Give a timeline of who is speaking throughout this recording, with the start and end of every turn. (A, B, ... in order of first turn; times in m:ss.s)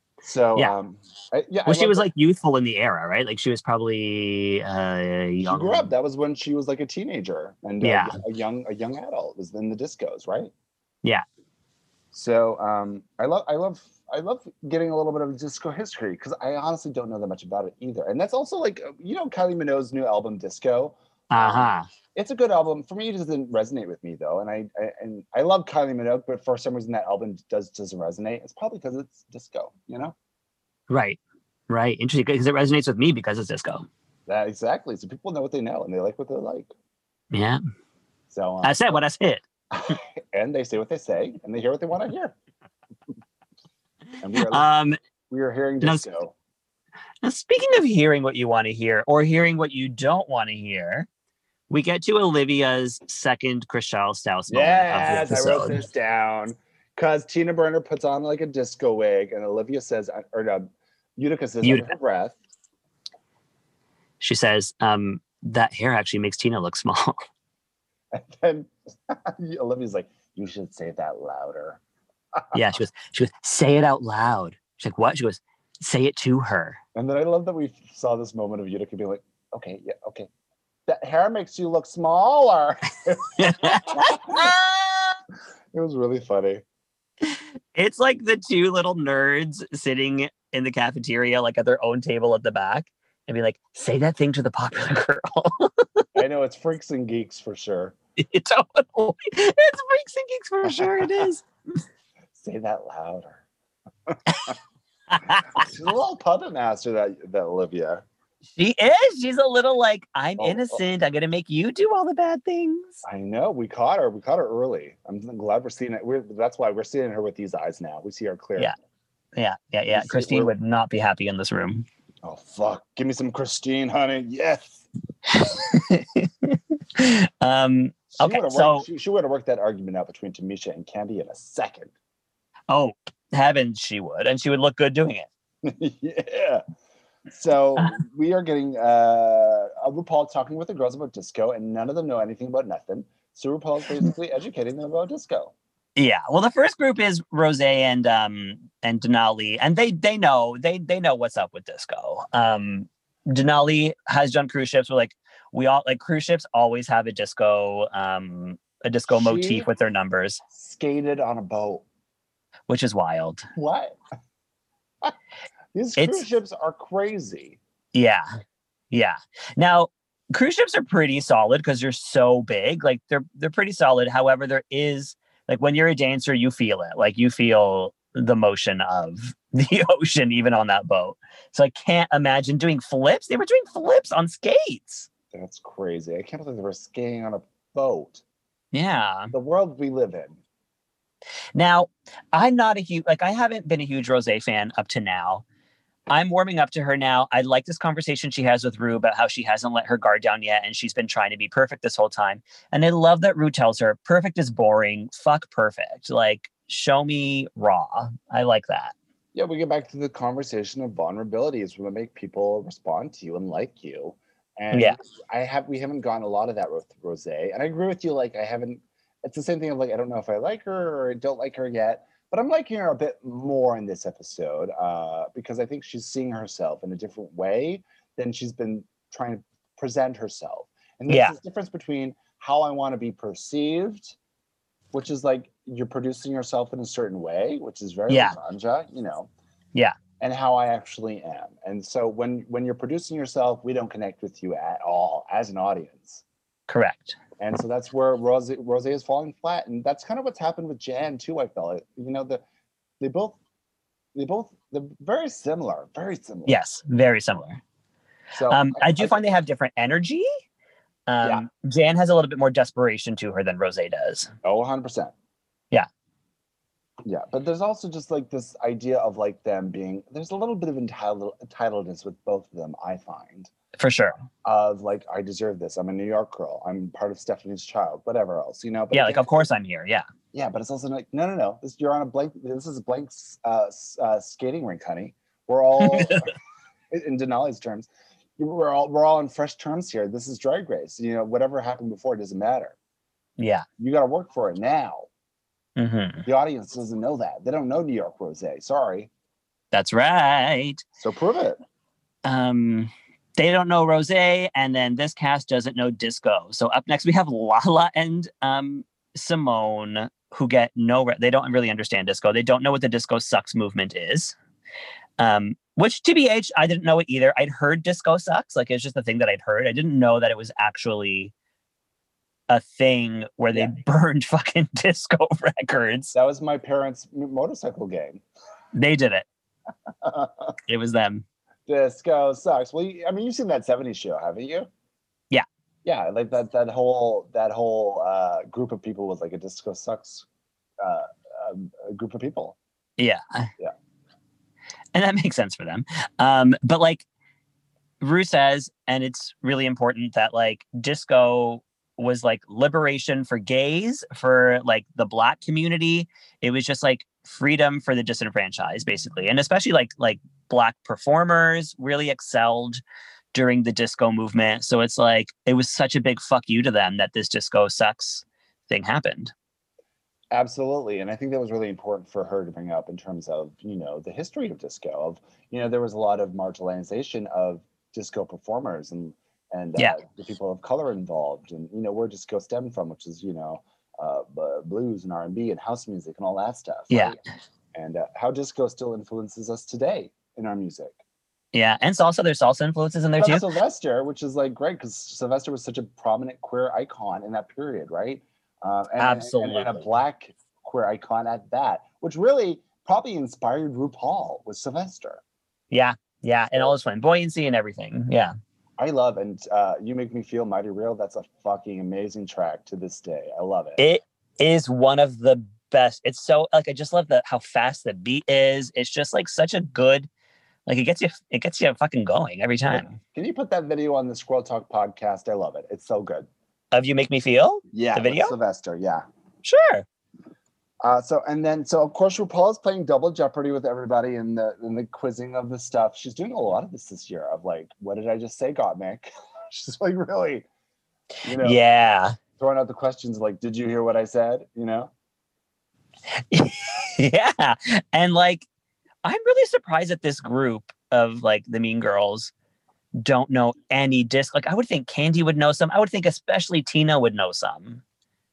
0:00.2-0:02.1 A
0:01.7-0:05.9 B
0:05.4-0:10.5 A
0:07.8-0:08.2 B
0:12.1-0:30.2 A
0:21.3-0:21.9 B
0:30.9-0:33.9 B
0:34.3-0:36.7 A
0:37.3-0:37.6 B
0:38.3-0:39.0 A
0:38.6-0:39.4 B
0:39.7-0:42.4 A
0:44.2-0:44.7 A
0:44.5-0:45.0 B
0:45.3-0:46.3 A
0:47.2-0:51.1 B
0:51.7-0:55.8 B
0:54.5-1:02.4 A
1:01.6-1:01.9 B
1:04.2-1:07.2 B
1:08.1-1:11.8 A
1:12.5-1:16.8 B
1:17.0-1:20.3 A
1:20.9-1:24.6 A
1:23.4-1:24.9 B
1:25.7-1:26.6 A
1:27.3-1:36.0 B
1:36.2-1:38.0 A
1:38.2-1:41.4 B
1:40.6-1:41.3 A
1:42.4-1:43.4 A
1:44.1-1:44.6 A
1:45.1-1:45.6 B
1:45.5-1:48.0 A
1:48.6-1:53.0 B
1:50.4-1:50.8 A
1:53.0-1:58.8 A
1:59.4-2:01.9 B
1:59.9-2:00.5 A
2:02.2-2:04.9 A
2:05.3-2:08.9 B
2:08.1-2:11.9 A
2:12.7-2:15.3 B
2:15.6-2:16.6 A
2:17.3-2:25.5 A
2:26.0-2:40.4 B
2:39.1-2:39.7 A
2:40.5-2:41.8 A
2:42.7-2:43.5 B
2:43.6-2:44.0 A
2:45.7-2:47.6 A
2:46.0-2:46.2 B
2:47.9-2:48.3 B
2:48.9-3:05.1 B
3:05.3-3:08.2 A
3:08.7-3:09.3 B
3:09.3-3:10.4 A
3:11.6-3:15.4 B
3:16.1-3:28.9 B
3:29.3-3:54.2 A
3:34.7-3:35.0 B
3:51.1-3:51.4 B
3:54.9-3:59.3 A
3:58.1-3:58.4 B
4:00.2-4:06.2 A
4:06.7-4:07.2 B
4:07.4-4:12.4 A
4:13.0-4:13.4 A
4:14.2-4:16.6 A
4:16.5-4:17.6 B
4:18.3-4:19.3 A
4:18.5-4:20.3 B
4:21.1-4:24.3 B
4:24.4-4:25.1 A
4:27.0-4:33.5 A
4:33.8-4:34.2 B
4:34.4-4:39.5 A
4:38.9-4:40.1 B
4:40.3-4:46.3 A
4:46.9-4:52.8 A
4:53.4-4:53.6 B
4:53.8-4:55.1 A
4:55.8-4:56.3 B
4:56.3-4:59.1 A
4:59.7-5:00.8 B
5:01.0-5:01.6 A
5:02.2-5:14.4 B
5:15.2-5:21.3 B
5:22.5-5:26.1 B
5:26.1-5:28.2 A
5:28.7-5:29.3 B
5:29.9-5:30.5 A
5:30.7-5:31.2 B
5:31.7-5:34.7 A
5:35.8-5:40.3 A
5:40.8-5:42.6 A
5:43.0-5:43.5 B
5:44.9-5:47.0 B
5:48.0-6:02.8 B
6:03.3-6:09.3 B
6:10.3-6:27.2 A
6:26.9-6:27.2 B
6:27.7-6:31.0 A
6:31.5-6:33.5 B
6:33.2-6:45.2 A
6:39.0-6:39.8 B
6:45.7-6:48.4 B
6:48.8-6:53.8 A
6:53.8-7:00.1 B
7:00.7-7:02.9 B
7:02.7-7:06.3 A
7:06.7-7:08.3 B
7:07.7-7:09.0 A
7:09.4-7:09.9 B
7:10.8-7:20.5 A
7:21.2-7:21.6 A
7:21.4-7:22.2 B
7:22.4-7:24.9 A
7:26.3-7:28.5 B
7:29.0-7:32.3 B
7:33.0-7:37.8 B